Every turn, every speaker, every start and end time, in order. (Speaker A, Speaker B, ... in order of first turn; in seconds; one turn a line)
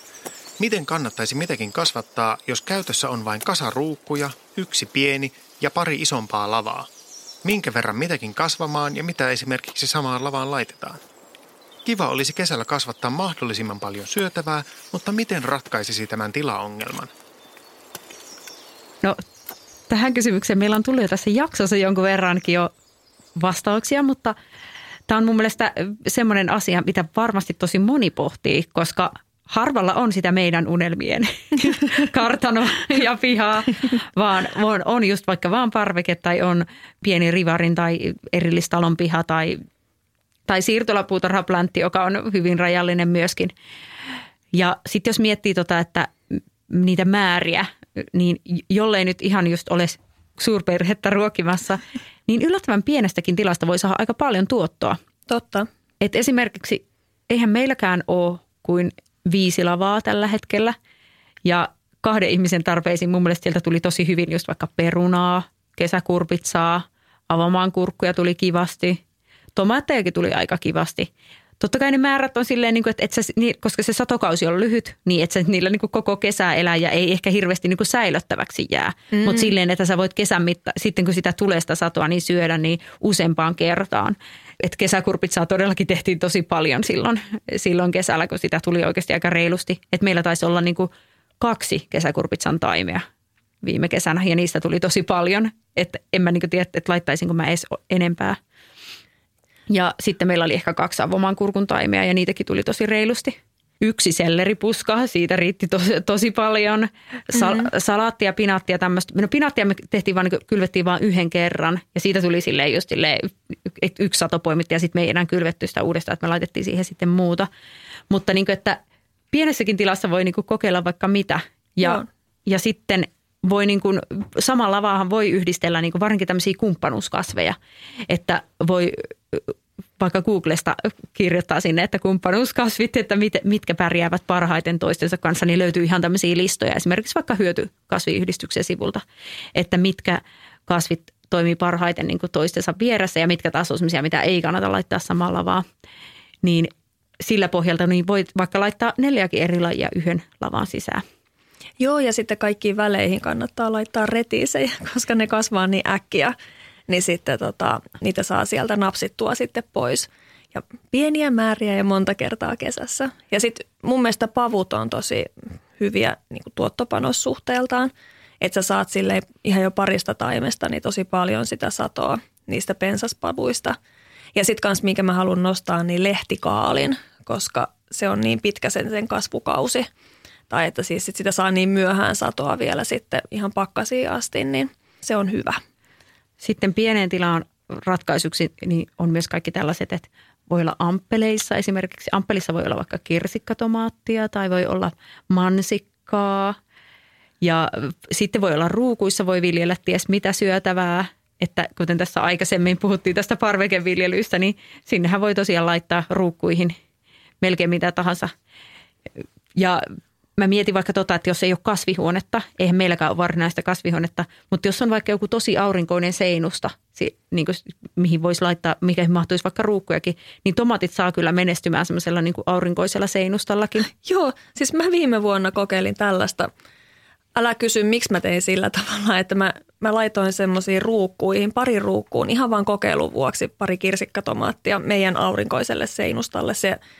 Speaker A: 0.6-6.9
Speaker A: 7.4-11.0
Speaker A: 11.8-17.1
Speaker B: 19.9-22.7
Speaker B: 23.4-24.4
Speaker B: 25.1-39.6
Speaker B: 40.5-43.5
Speaker B: 44.5-55.0
Speaker C: 55.3-55.7
Speaker B: 56.0-60.7
Speaker B: 61.4-69.0
Speaker B: 69.5-93.0
Speaker C: 79.1-79.5
Speaker B: 93.6-98.4
Speaker B: 99.7-117.5
Speaker C: 107.3-107.7
Speaker B: 118.1-118.8
Speaker B: 119.3-127.5
Speaker B: 128.1-139.0
Speaker B: 139.5-145.6
Speaker B: 146.4-151.0
Speaker C: 151.8-156.3
Speaker C: 156.9-173.8
Speaker C: 174.3-179.8
Speaker C: 180.5-185.6
Speaker B: 186.4-196.6
Speaker B: 197.4-206.8
Speaker B: 207.4-208.3
Speaker B: 209.2-209.8
Speaker B: 210.4-223.9
Speaker C: 224.0-226.5
Speaker C: 227.3-236.8